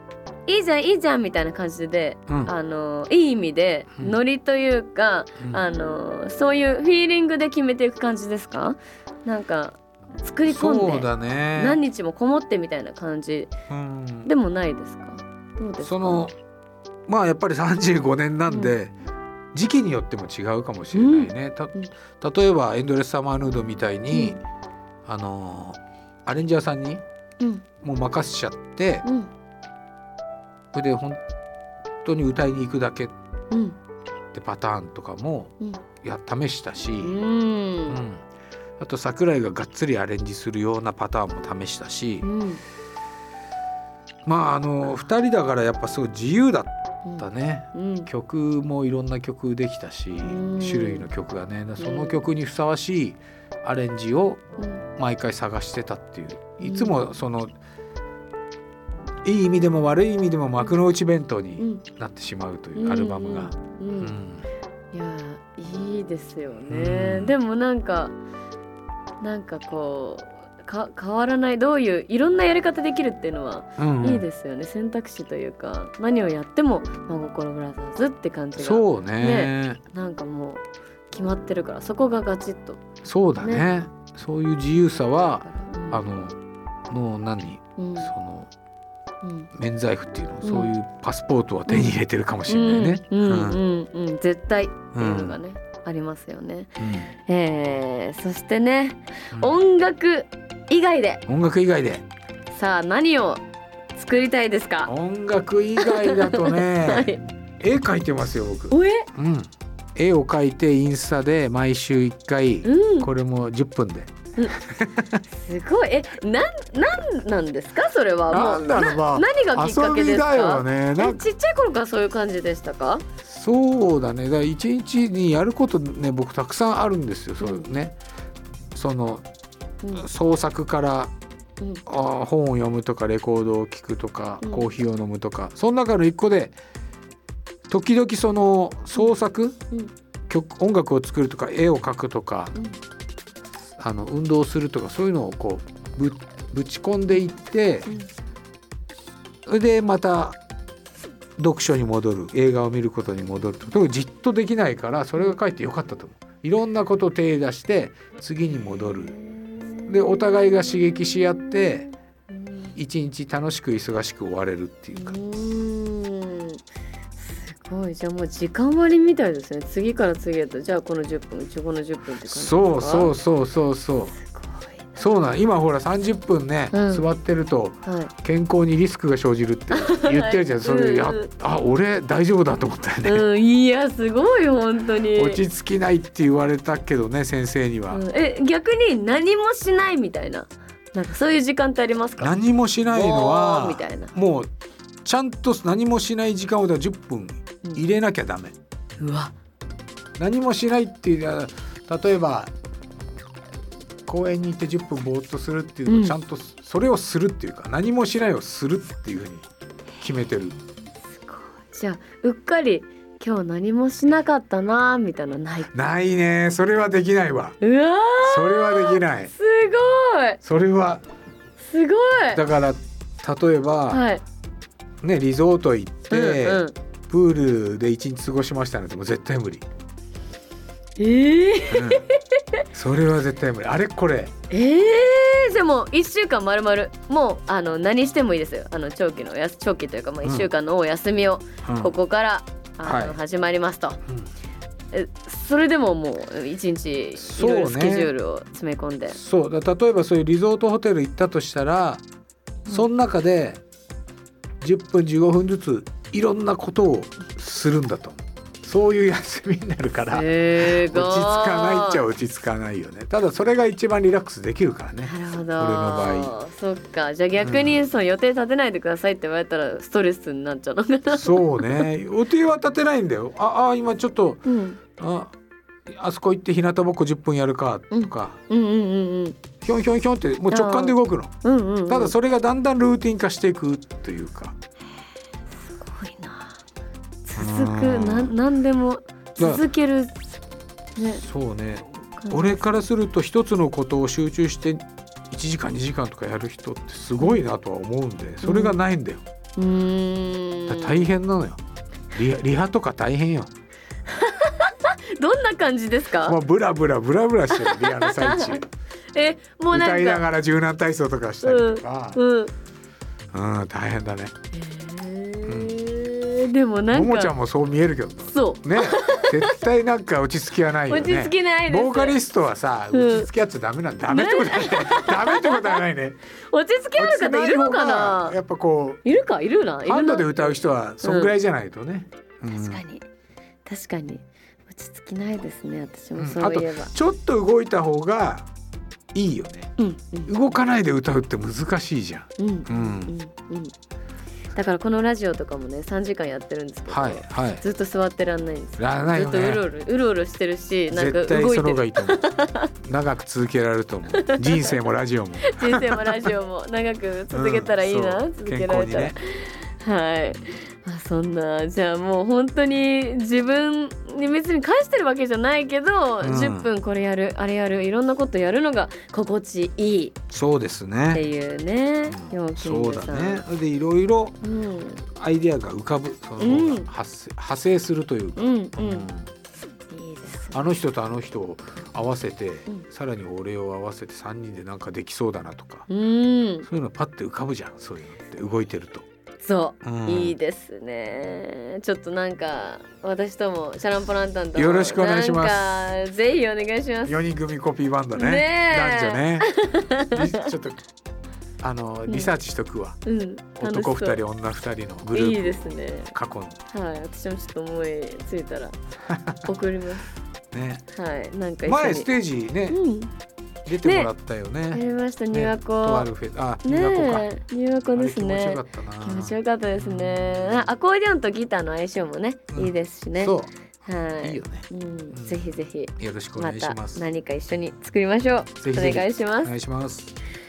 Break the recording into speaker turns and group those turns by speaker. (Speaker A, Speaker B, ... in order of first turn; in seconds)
Speaker A: 0.5-13.5, 14.2-16.3, 18.5-18.8, 20.9-21.9, 24.1-24.4, 27.4-27.6, 29.0-29.3, 33.5-33.8, 37.0-38.0, 42.2-42.6, 47.0-48.1, 50.2-51.1, 51.8-52.2, 54.6-54.9, 56.6-57.0, 61.6-61.8, 62.8-64.1, 64.9-68.2, 69.2-82.8, 83.4-83.7, 85.4-86.0, 87.8-88.1, 89.2-89.5, 90.4-90.7, 91.7-101.2, 102.5-103.4, 104.0-104.9, 105.8-107.2, 108.7-109.1, 112.6-113.1, 115.3-123.0, 127.4-127.7, 129.8-130.1, 134.4-134.7, 158.8-162.8, 165.0-166.6, 167.2-173.1, 174.2-174.9, 176.7-177.1, 177.8-178.1, 179.7-181.3, 183.1-185.4, 187.9-192.4, 192.9-194.1, 199.0-199.3, 205.9-206.2, 211.2-215.9, 217.6-220.4, 221.6-222.4, 223.9-224.2, 226.1-226.8, 231.0-232.4, 234.5-244.0, 244.9-249.2, 260.1-262.0, 265.0-271.9, 274.4-274.8, 277.9-279.4, 280.5-282.1, 285.6-286.6, 287.2-290.2, 291.0-291.2, 292.2-292.9, 298.4-298.8, 299.6-301.1, 304.1-306.4, 307.5-308.6, 309.1-310.2, 311.4-312.5, 314.5-317.3, 318.3-319.6, 320.9-322.2, 322.9-323.3, 324.1-325.8, 326.5-328.4, 329.1-331.3, 332.5-333.1, 333.7-336.9, 339.8-340.4, 342.4-343.7, 344.5-352.7, 354.2-354.7, 355.5-370.2, 371.1-373.4, 374.4-375.0, 376.4-376.9, 378.4-379.1, 379.9-380.7, 385.9-386.7, 389.4-397.2, 398.1-400.5, 403.1-404.2, 405.1-406.1, 406.7-408.8, 409.4-410.1, 410.9-412.1, 412.7-413.1, 413.8-414.1, 414.7-416.1, 416.6-423.4, 423.9-429.5
Speaker B: 10.4-11.8, 13.7-14.3, 15.8-16.3, 17.1-18.9, 19.5-24.4, 25.1-27.0, 27.8-29.1, 30.7-31.2, 32.0-33.1, 34.3-37.1, 37.9-38.2, 38.8-42.3, 44.2-54.4, 55.0-57.5, 59.2-64.5, 66.7-67.3, 73.8-74.3, 78.6-79.8, 83.0-86.4, 86.9-88.5, 89.5-93.6, 94.9-95.4, 96.8-97.1, 101.3-102.1, 104.8-115.2, 118.3-121.2, 123.2-128.0, 128.7-129.2, 129.9-131.1, 131.9-136.6, 137.7-139.6, 140.3-142.6, 143.8-147.9, 149.5-150.4, 151.4-159.1, 159.9-161.9, 162.8-165.2, 172.2-174.2, 175.0-183.3, 185.1-188.0, 192.2-194.5, 195.0-198.6, 200.2-202.5, 204.1-209.4, 210.0-210.6, 215.7-217.6, 218.2-219.3, 220.4-221.0, 222.3-224.0, 225.0-229.7, 231.7-232.1, 232.7-234.3, 240.2-240.5, 241.7-241.9, 242.8-243.2, 247.2-248.1, 249.1-252.0, 252.7-253.6, 254.6-266.3, 267.4-267.8, 271.1-275.3, 275.9-278.4, 279.6-281.3, 281.9-284.6, 287.4-288.3, 289.4-289.6, 291.0-299.2, 300.7-301.6, 302.1-303.5, 306.2-308.7, 309.7-312.2, 313.3-314.3, 315.5-315.8, 316.9-326.2, 326.9-329.0, 329.8-332.8, 336.2-338.5, 339.1-339.7, 340.3-343.1, 346.9-347.6, 348.8-349.6, 350.9-352.3, 352.8-356.3, 357.3-359.2, 366.2-366.7, 370.3-371.2, 372.1-374.4, 375.1-379.3, 380.5-385.9, 386.7-389.1, 389.8-390.4, 394.6-395.8, 397.1-400.8, 401.6-403.0, 403.6-406.6, 409.1-409.4, 410.5-410.8, 411.6-412.8, 413.7-417.3, 417.9-420.7, 422.5-423.5, 424.2-425.5, 426.0-427.0, 428.6-430.1